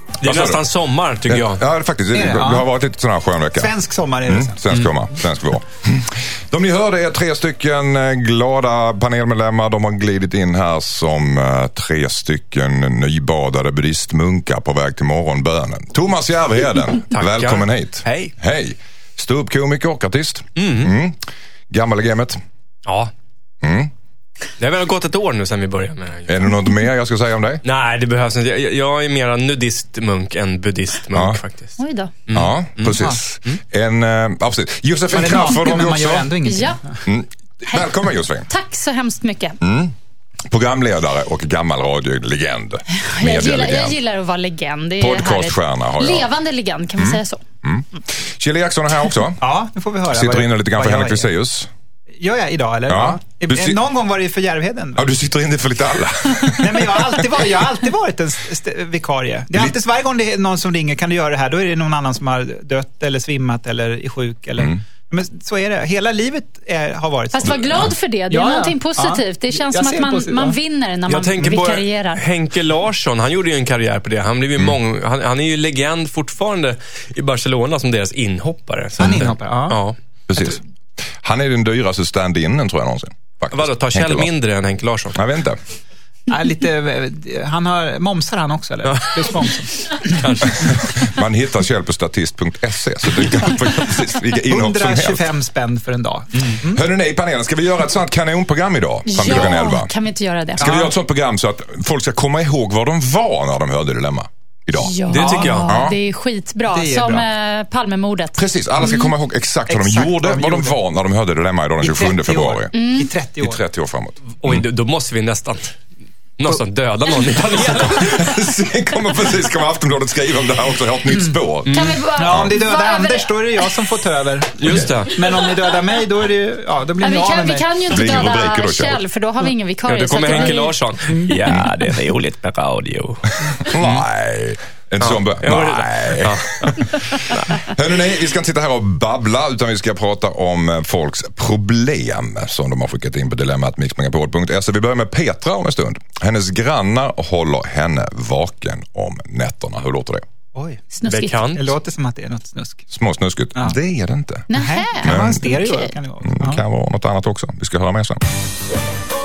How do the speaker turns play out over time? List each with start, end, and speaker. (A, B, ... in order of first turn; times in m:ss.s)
0:00.2-0:00.6 A
0:00.2-0:01.6 B
0:01.2-0:03.7 A
0:02.1-0:02.6 C
0:03.6-0:04.6 C
0:04.2-0:22.4 A
0:17.1-0:18.3 B
0:20.6-0:20.9 B
0:22.8-0:23.1 B
0:23.6-0:23.9 A
0:24.6-0:26.4 B
0:26.3-0:27.6 A
0:27.6-0:31.7 B
0:31.1-0:31.4 A
0:31.8-0:32.1 D
0:32.3-0:33.6 B
0:32.3-0:36.3 A
0:33.0-0:33.2 C
0:35.1-0:37.0 C
0:36.4-0:36.8 D
0:37.0-0:38.5 A
0:38.5-0:39.6 D
0:39.6-0:40.0 A
0:40.5-0:44.0 A
0:43.0-0:47.4 D
0:45.0-0:46.3 A
0:47.0-0:49.4 A
0:49.4-0:51.3 C
0:50.1-0:51.7 A
0:52.2-0:55.1 C
0:52.9-0:53.8 A
0:55.0-0:57.5 A
0:56.4-1:10.6 C
1:04.6-1:04.8 A
1:07.3-1:12.2 D
1:11.1-1:20.0 B
1:19.0-1:19.8 C
1:20.3-1:24.3 A
1:23.5-1:25.2 B
1:25.1-1:25.6 A
1:26.3-1:30.7 C
1:28.8-1:29.5 B
1:30.1-1:30.7 B
1:30.5-1:35.3 A
1:34.3-1:36.9 C
1:36.7-1:39.9 A
1:39.1-1:40.6 D
1:39.2-1:39.5 C
1:40.6-1:44.9 A
1:40.6-1:40.9 C
1:44.7-1:49.1 D
1:45.1-1:45.7 B
1:45.2-1:45.8 C
1:45.7-1:46.0 A
1:46.7-1:47.2 C
1:48.4-1:52.7 A
1:49.7-1:50.8 C
1:51.8-1:53.6 C
1:52.7-1:53.1 D
1:53.4-1:54.6 A
1:54.3-1:55.8 B
1:56.4-1:58.3 B
1:57.8-2:01.7 A
2:01.1-2:01.4 C
2:01.7-2:02.0 B
2:01.7-2:03.8 D
2:02.2-2:07.6 C
2:02.2-2:02.5 A
2:04.6-2:05.1 B
2:04.6-2:05.0 A
2:07.0-2:10.8 D
2:07.9-2:09.0 A
2:09.9-2:14.0 B
2:13.6-2:30.2 A
2:15.0-2:17.7 B
2:30.6-2:30.8 C
2:30.9-2:31.4 D
2:31.1-2:31.7 B
2:31.5-2:32.8 C
2:32.9-2:34.5 A
2:34.5-2:36.6 C
2:34.5-2:35.9 D
2:35.0-2:35.6 A
2:36.2-2:38.2 A